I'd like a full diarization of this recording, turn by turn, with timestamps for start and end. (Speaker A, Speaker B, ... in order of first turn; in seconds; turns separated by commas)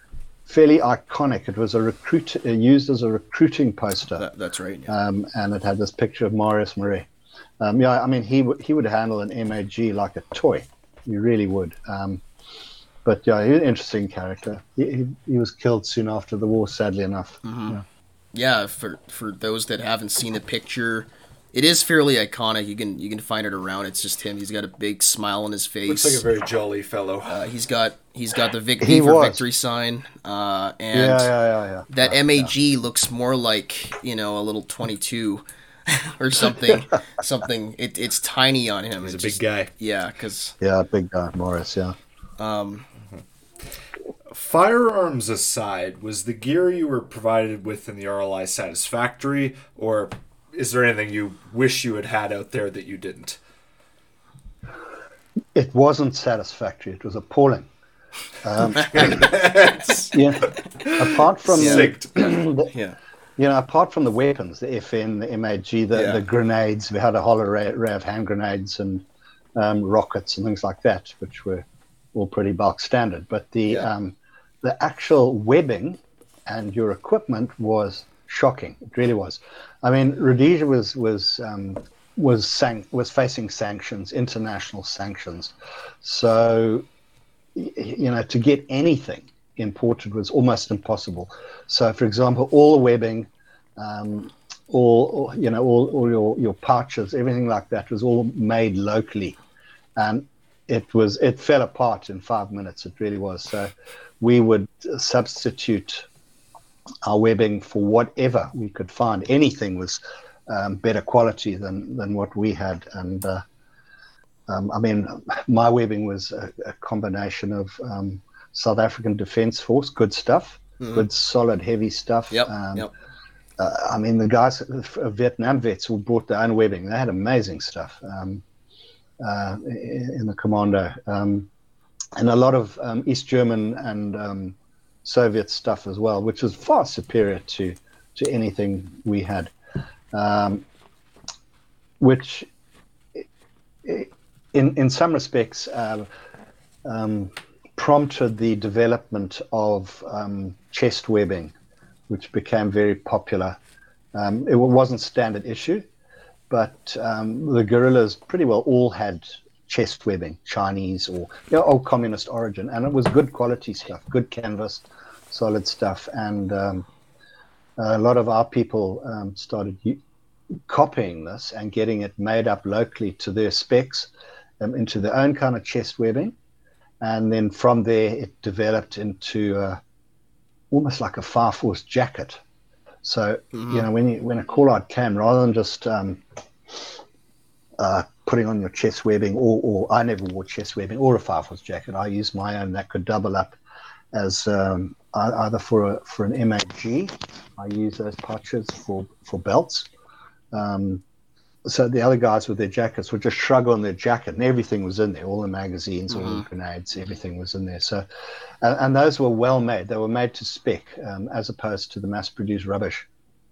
Speaker A: 0.5-4.3, Speaker B: 4.2-4.9, Speaker A: 4.9-7.1, Speaker A: 7.6-12.2, Speaker A: 13.1-17.8, Speaker B: 17.4-17.8, Speaker B: 18.3-26.2, Speaker C: 25.9-27.4, Speaker B: 27.3-31.3, Speaker A: 28.8-29.4, Speaker A: 30.9-32.5, Speaker B: 31.9-40.5, Speaker C: 39.0-39.7, Speaker A: 40.6-42.0, Speaker B: 42.4-42.9, Speaker C: 44.3-53.4, Speaker A: 55.5-57.7, Speaker A: 58.4-59.3, Speaker C: 58.9-62.1, Speaker A: 60.1-62.7, Speaker B: 61.6-61.9, Speaker B: 62.7-63.0, Speaker A: 63.4-86.9, Speaker B: 65.9-66.2, Speaker A: 87.5-99.4, Speaker A: 100.0-106.1, Speaker A: 107.0-113.4, Speaker A: 114.5-122.9, Speaker B: 120.8-121.1, Speaker B: 122.3-122.9, Speaker A: 123.6-128.4, Speaker A: 129.2-131.5, Speaker A: 132.2-139.5, Speaker A: 140.1-140.6, Speaker A: 142.0-142.5, Speaker A: 143.8-146.1, Speaker A: 146.8-151.5, Speaker A: 152.1-153.6, Speaker A: 154.1-155.8, Speaker A: 156.5-166.9, Speaker A: 167.8-170.0, Speaker A: 170.7-176.3, Speaker A: 177.0-179.8, Speaker A: 180.7-182.4, Speaker A: 183.0-187.0, Speaker B: 183.5-183.9, Speaker A: 187.8-193.6, Speaker A: 194.1-199.9, Speaker A: 200.5-201.0, Speaker A: 201.6-208.1, Speaker B: 206.1-206.4, Speaker A: 208.6-213.1